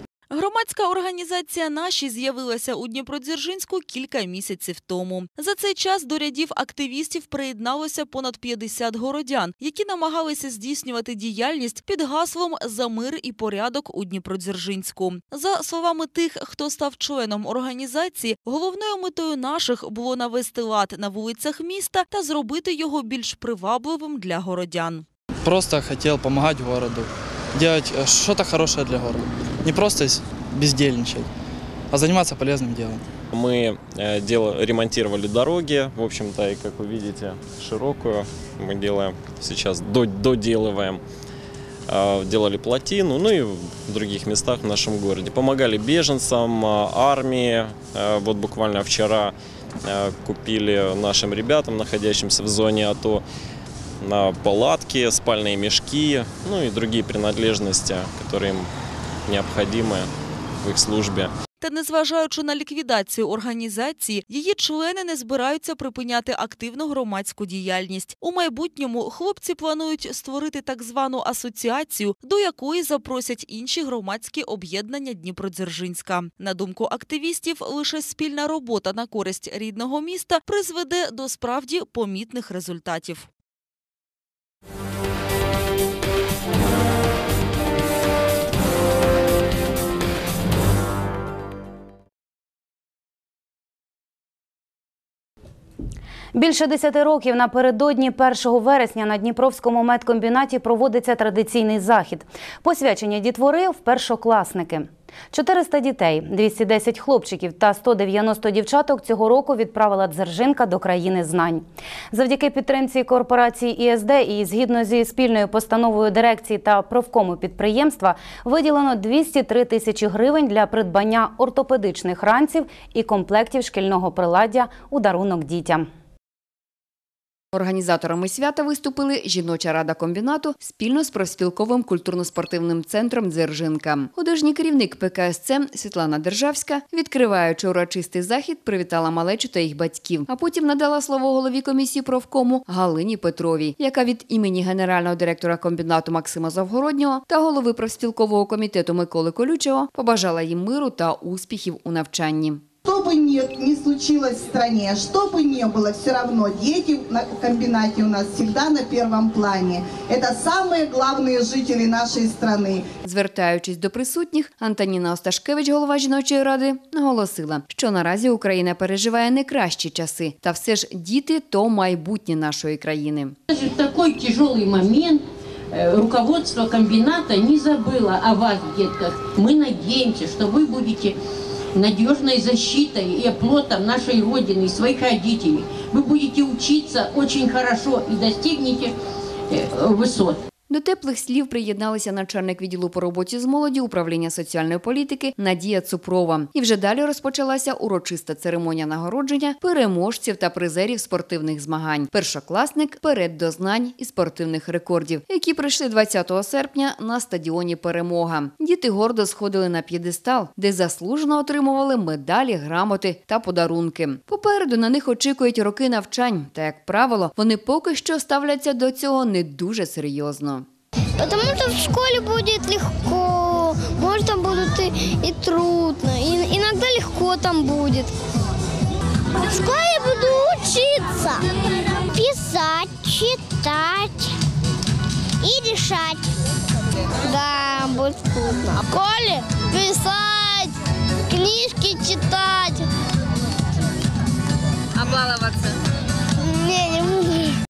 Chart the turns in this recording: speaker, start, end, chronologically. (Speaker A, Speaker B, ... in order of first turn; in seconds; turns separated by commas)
Speaker A: 0.3-25.1, Speaker B: 25.4-31.3, Speaker B: 31.9-33.0, Speaker C: 33.3-41.0, Speaker C: 41.9-53.2, Speaker C: 54.0-58.7, Speaker C: 59.3-60.1, Speaker C: 60.6-61.3, Speaker A: 61.6-83.3, Speaker D: 96.3-125.9, Speaker E: 127.5-152.6, Speaker F: 152.9-162.8, Speaker E: 163.0-173.4, Speaker G: 173.5-181.2, Speaker G: 181.8-188.9, Speaker G: 189.5-190.4, Speaker E: 190.7-220.7, Speaker H: 221.2-228.1, Speaker H: 229.4-231.4, Speaker H: 232.1-234.4, Speaker H: 235.4-236.3, Speaker H: 237.2-240.8, Speaker H: 241.3-242.9, Speaker H: 246.4-247.6